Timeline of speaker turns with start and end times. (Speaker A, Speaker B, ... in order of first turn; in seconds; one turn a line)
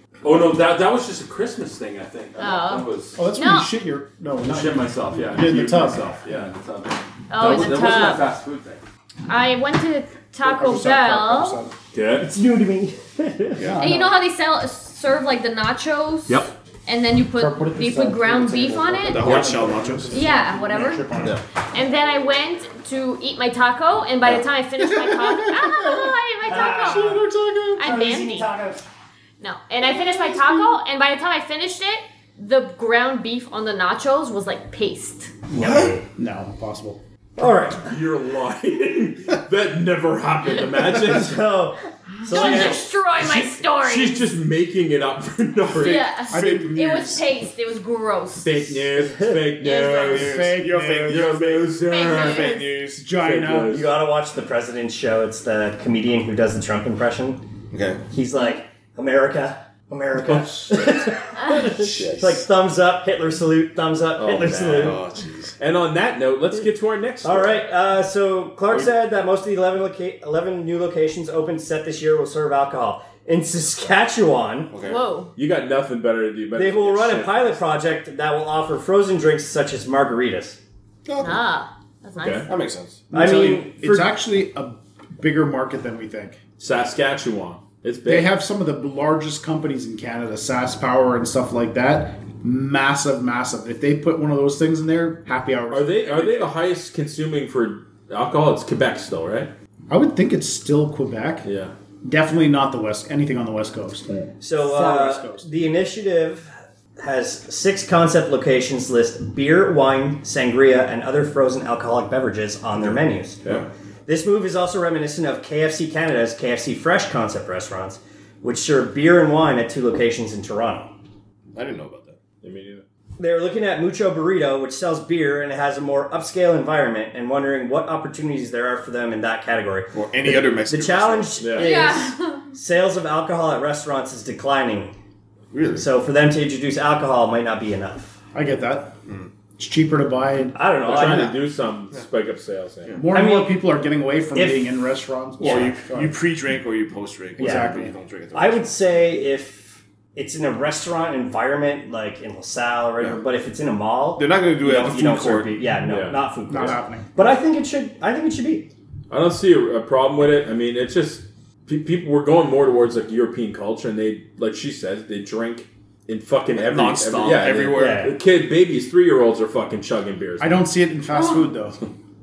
Speaker A: 0.2-3.2
Speaker B: 2.4-3.7
Speaker C: 3.2-6.5
Speaker A: 4.4-8.8
Speaker B: 7.3-8.2
Speaker B: 9.3-11.6
Speaker C: 10.4-11.7
Speaker A: 11.9-12.3
Speaker D: 12.2-13.6
Speaker C: 13.6-14.2
Speaker B: 13.8-19.3
Speaker A: 16.3-16.5
Speaker C: 17.4-21.4
Speaker E: 19.1-20.2
Speaker A: 19.2-19.5
Speaker B: 20.1-21.0
Speaker B: 21.7-27.1
Speaker C: 24.8-28.0
Speaker D: 26.4-27.3
Speaker B: 27.8-28.5
Speaker D: 27.8-28.9
Speaker B: 29.4-35.3
Speaker C: 29.9-30.7
Speaker D: 35.5-36.0
Speaker E: 35.6-35.9
Speaker C: 36.2-37.0
Speaker D: 37.4-37.9
Speaker A: 37.8-41.4
Speaker D: 41.0-42.9
Speaker B: 42.2-44.2
Speaker A: 42.3-46.1
Speaker B: 45.8-48.8
Speaker E: 46.3-47.1
Speaker C: 46.3-47.2
Speaker A: 48.4-50.5
Speaker B: 49.6-50.3
Speaker E: 50.0-53.0
Speaker C: 50.1-51.3
Speaker A: 51.1-52.6
Speaker B: 51.9-52.7
Speaker C: 53.0-53.8
Speaker A: 53.1-54.0
Speaker D: 53.7-57.5
Speaker E: 57.7-58.0
Speaker D: 58.1-65.0
Speaker A: 60.2-61.1
Speaker A: 61.7-62.4
Speaker A: 64.2-65.0
Speaker E: 64.7-65.5
Speaker A: 65.6-67.7
Speaker D: 67.2-74.7
Speaker E: 74.7-75.0
Speaker B: 74.8-75.3
Speaker A: 75.4-77.6
Speaker D: 76.5-80.6
Speaker E: 81.1-81.4
Speaker B: 81.2-82.5
Speaker A: 82.2-82.5
Speaker E: 82.5-83.0
Speaker C: 83.1-86.4
Speaker D: 83.1-84.1
Speaker A: 86.6-88.3
Speaker C: 88.1-96.5
Speaker A: 95.7-99.5
Speaker C: 99.9-101.5
Speaker A: 101.5-101.7
Speaker C: 102.0-105.5
Speaker D: 104.4-113.4
Speaker D: 114.1-120.9
Speaker E: 121.5-122.2
Speaker A: 122.4-122.8
Speaker D: 123.2-134.9
Speaker E: 129.9-131.5
Speaker A: 131.4-131.8
Speaker B: 131.6-132.4
Speaker E: 135.5-135.9
Speaker D: 135.8-138.2
Speaker C: 138.3-139.0
Speaker C: 139.6-141.2
Speaker D: 140.6-141.3
Speaker A: 140.8-143.0
Speaker C: 143.0-146.2
Speaker D: 143.1-143.6
Speaker D: 144.3-144.7
Speaker D: 145.4-145.8
Speaker E: 145.4-148.8
Speaker C: 147.4-147.9
Speaker D: 147.4-147.7
Speaker D: 148.3-158.7
Speaker E: 154.2-155.6
Speaker A: 155.9-156.3
Speaker C: 156.5-157.1
Speaker A: 159.1-170.7
Speaker E: 166.6-168.1
Speaker D: 167.7-168.1
Speaker C: 170.4-171.9
Speaker B: 171.1-171.4